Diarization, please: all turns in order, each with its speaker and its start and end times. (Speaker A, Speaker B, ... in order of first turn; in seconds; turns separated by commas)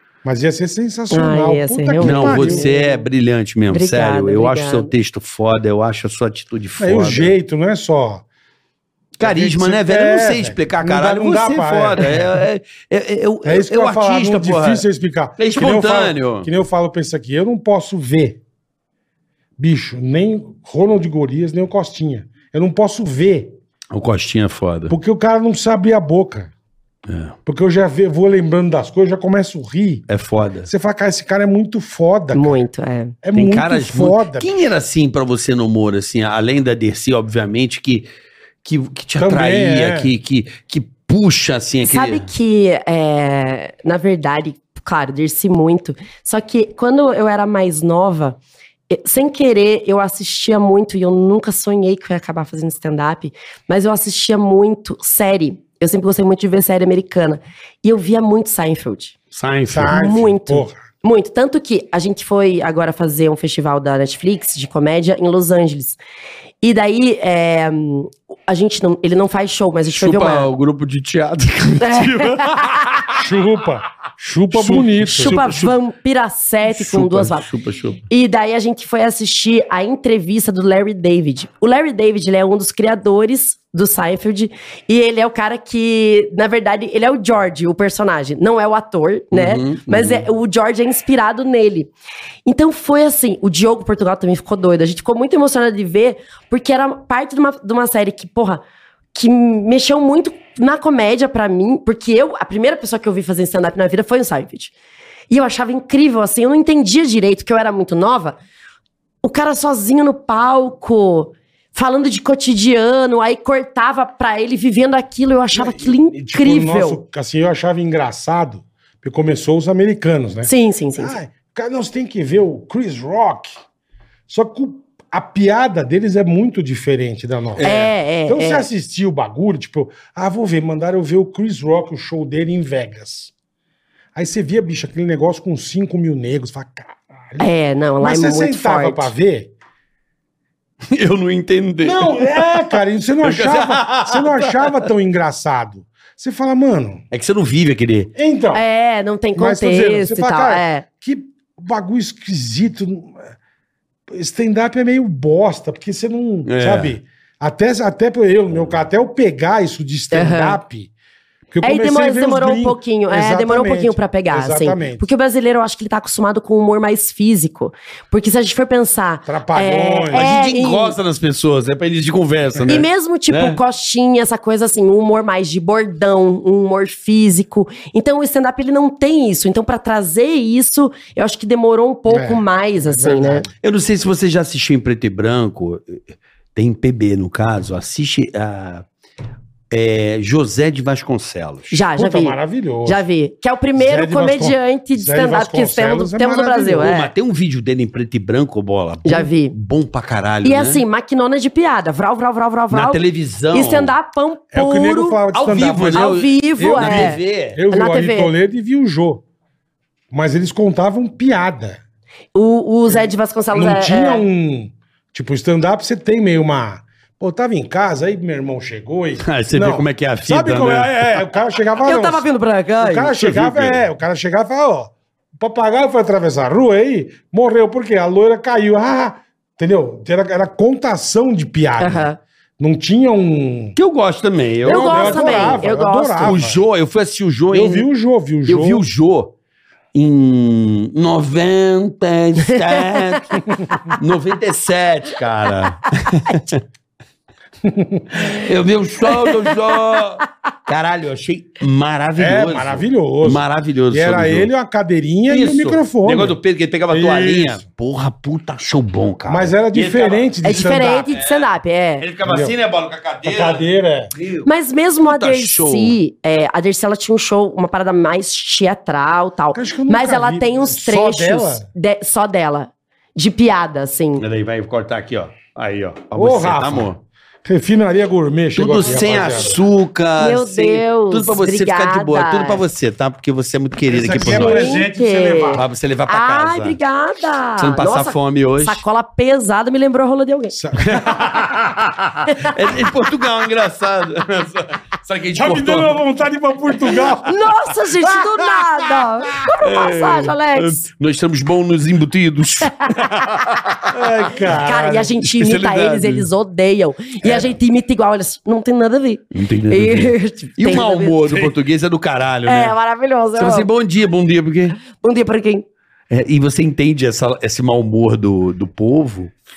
Speaker A: 0.2-2.8, Speaker B: 1.1-2.7, Speaker C: 2.0-7.3, Speaker B: 3.7-4.9, Speaker A: 6.8-8.2, Speaker C: 9.2-14.8, Speaker A: 9.2-12.4, Speaker A: 13.4-18.4, Speaker C: 15.4-16.5, Speaker A: 19.6-23.6, Speaker C: 23.9-24.9, Speaker A: 24.9-26.5, Speaker C: 27.1-27.4, Speaker A: 27.4-30.1, Speaker C: 30.1-30.7, Speaker A: 30.6-32.6, Speaker B: 32.3-33.2, Speaker A: 33.2-34.5, Speaker C: 33.3-38.1, Speaker C: 38.6-42.3, Speaker A: 39.2-40.1, Speaker B: 41.8-48.4, Speaker B: 48.9-59.1, Speaker C: 59.3-60.0, Speaker A: 59.7-60.8, Speaker B: 59.9-66.0, Speaker B: 66.6-70.5, Speaker C: 69.9-73.2, Speaker B: 71.8-72.9, Speaker A: 73.2-75.4, Speaker C: 74.5-75.7, Speaker B: 75.1-77.5, Speaker C: 76.7-78.0, Speaker B: 78.1-91.9, Speaker C: 89.3-90.3, Speaker B: 92.5-98.6, Speaker B: 99.1-104.7, Speaker B: 105.3-108.4, Speaker B: 109.2-117.0, Speaker A: 115.5-123.5, Speaker B: 120.4-121.2, Speaker A: 124.3-133.3, Speaker C: 127.6-127.9, Speaker B: 127.6-128.7, Speaker A: 134.1-137.5, Speaker B: 137.4-139.1, Speaker A: 138.0-139.5, Speaker C: 140.9-144.9, Speaker A: 141.8-147.0, Speaker C: 147.1-148.1, Speaker A: 148.1-148.6, Speaker B: 148.5-150.8, Speaker A: 149.3-153.3, Speaker A: 154.1-160.9, Speaker C: 156.4-157.0, Speaker B: 160.1-160.6, Speaker A: 161.5-165.1, Speaker B: 161.6-171.0, Speaker A: 169.3-170.3, Speaker C: 170.1-173.6, Speaker A: 172.6-172.8, Speaker B: 172.7-183.4, Speaker A: 182.1-183.5, Speaker C: 183.6-188.8, Speaker C: 189.7-191.8, Speaker B: 191.7-197.1, Speaker A: 191.9-193.0, Speaker A: 193.8-196.9, Speaker C: 196.8-200.8, Speaker B: 199.1-199.6, Speaker B: 200.4-203.0, Speaker C: 202.7-203.9, Speaker B: 203.5-205.2, Speaker A: 204.5-209.2, Speaker C: 205.3-207.6, Speaker B: 205.9-208.3, Speaker A: 210.1-211.8, Speaker B: 212.3-214.3, Speaker A: 213.5-222.3, Speaker C: 219.2-221.0, Speaker B: 221.8-223.2, Speaker A: 222.8-233.7, Speaker C: 223.2-223.8, Speaker B: 231.8-232.2, Speaker C: 233.8-235.6, Speaker B: 234.6-236.4, Speaker A: 234.6-236.6, Speaker C: 236.2-237.9, Speaker A: 237.5-238.8, Speaker C: 238.5-239.3, Speaker C: 239.9-246.6, Speaker B: 242.5-243.0, Speaker A: 247.6-248.2, Speaker C: 248.1-254.5, Speaker B: 249.1-249.8, Speaker A: 252.2-256.4, Speaker C: 255.3-263.6, Speaker A: 256.9-257.6, Speaker A: 259.3-261.1, Speaker B: 260.4-262.1, Speaker A: 262.2-262.6, Speaker A: 263.2-264.1, Speaker C: 264.1-264.5, Speaker B: 264.4-274.2, Speaker C: 265.0-266.0, Speaker A: 269.5-271.6, Speaker C: 274.2-277.0, Speaker A: 276.1-276.9, Speaker A: 277.4-279.6, Speaker C: 278.6-284.8, Speaker B: 280.2-282.6, Speaker A: 283.9-285.6, Speaker B: 284.2-290.6, Speaker C: 285.5-286.8, Speaker C: 287.6-288.8, Speaker A: 290.5-291.4, Speaker C: 290.8-296.0, Speaker B: 292.3-292.7, Speaker A: 295.4-299.2, Speaker B: 297.2-300.9, Speaker C: 299.6-304.0, Speaker B: 302.6-303.2, Speaker A: 303.9-305.1, Speaker B: 304.4-311.5, Speaker C: 305.2-306.3, Speaker A: 307.2-307.5, Speaker C: 309.3-312.7, Speaker B: 312.4-313.7, Speaker C: 313.4-314.8, Speaker B: 314.9-315.6, Speaker C: 316.1-319.3